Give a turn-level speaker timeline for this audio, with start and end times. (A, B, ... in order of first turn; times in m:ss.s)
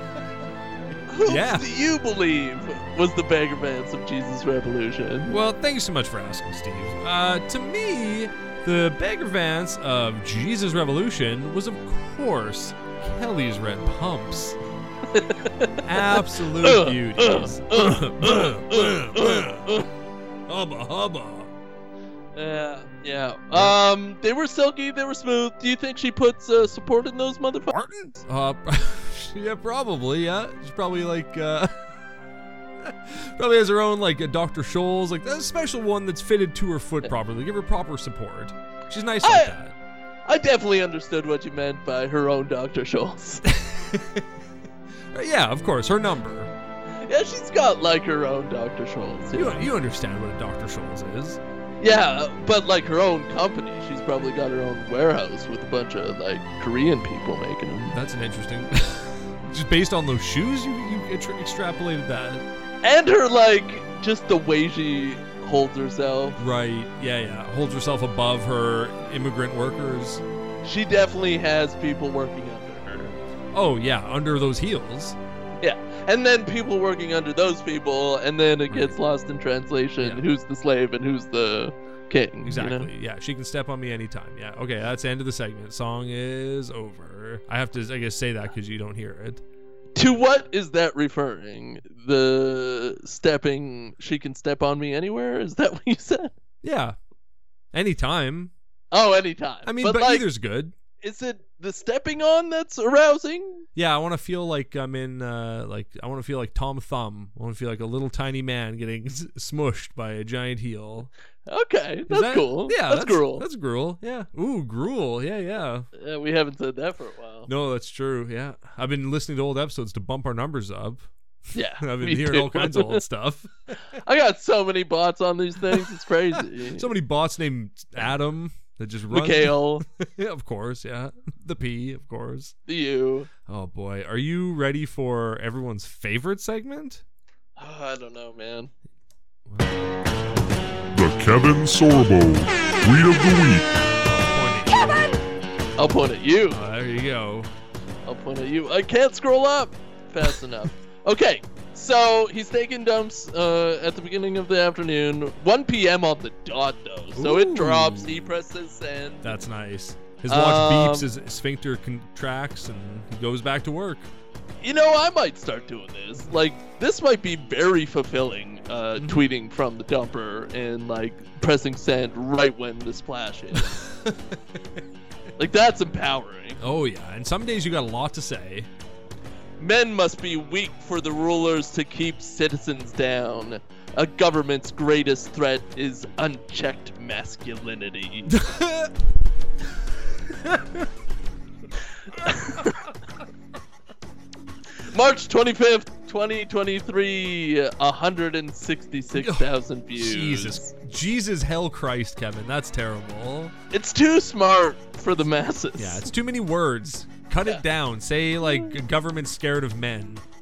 0:01.1-0:05.4 A
0:01.2-0:01.7 B
0:05.3-0:14.6 B
0:15.1-0:19.9 A
0:15.8-0:19.8 B
0:20.5-0:21.5 B
0:22.4-0:27.8 A
0:23.5-0:23.8 B
0:27.7-0:31.9 B
0:32.8-0:39.8 B
0:39.2-0:39.6 A
0:40.2-0:43.4 A
0:43.4-0:44.3 B
0:45.1-0:46.5 B
0:47.0-0:49.7 A
0:49.3-0:51.4 B
0:51.8-0:58.0 A
0:57.9-1:02.5 B
1:02.8-1:06.4 A
1:06.4-1:10.2 B
1:10.6-1:13.2 A
1:13.5-1:15.2 B
1:15.6-1:22.9 A
1:18.7-1:19.0 B
1:22.4-1:29.4 B
1:30.0-1:36.3 A
1:36.6-1:37.0 B
1:37.7-1:38.5 B
1:38.9-1:40.2 A
1:39.6-1:40.7 B
1:41.0-1:43.6 A
1:43.8-1:51.1 B
1:51.5-1:53.4 A
1:52.1-1:55.9 B
1:56.0-1:57.5 A
1:57.5-2:01.1 B
2:01.5-2:03.0 A
2:01.8-2:03.5 B
2:03.9-2:06.9 A
2:06.8-2:12.5 B
2:09.1-2:09.8 A
2:12.7-2:13.3 A
2:13.5-2:17.0 B
2:17.6-2:18.7 A
2:19.5-2:19.8 B
2:20.9-2:23.7 C
2:24.0-2:25.1 B
2:25.8-2:26.6 A
2:26.5-2:27.5 B
2:28.0-2:39.4 A
2:37.2-2:38.4 B
2:39.2-2:44.1 B
2:40.3-2:41.1 A
2:44.6-2:53.8 A
2:49.0-2:49.2 B
2:53.5-2:54.4 B
2:55.4-2:56.6 A
2:56.6-2:58.7 B
2:59.6-3:08.4 A
3:08.3-3:08.9 B
3:10.4-3:10.9 B
3:12.1-3:12.9 A
3:14.9-3:20.7 A
3:19.1-3:23.5 B
3:23.7-3:26.1 A
3:25.8-3:30.2 B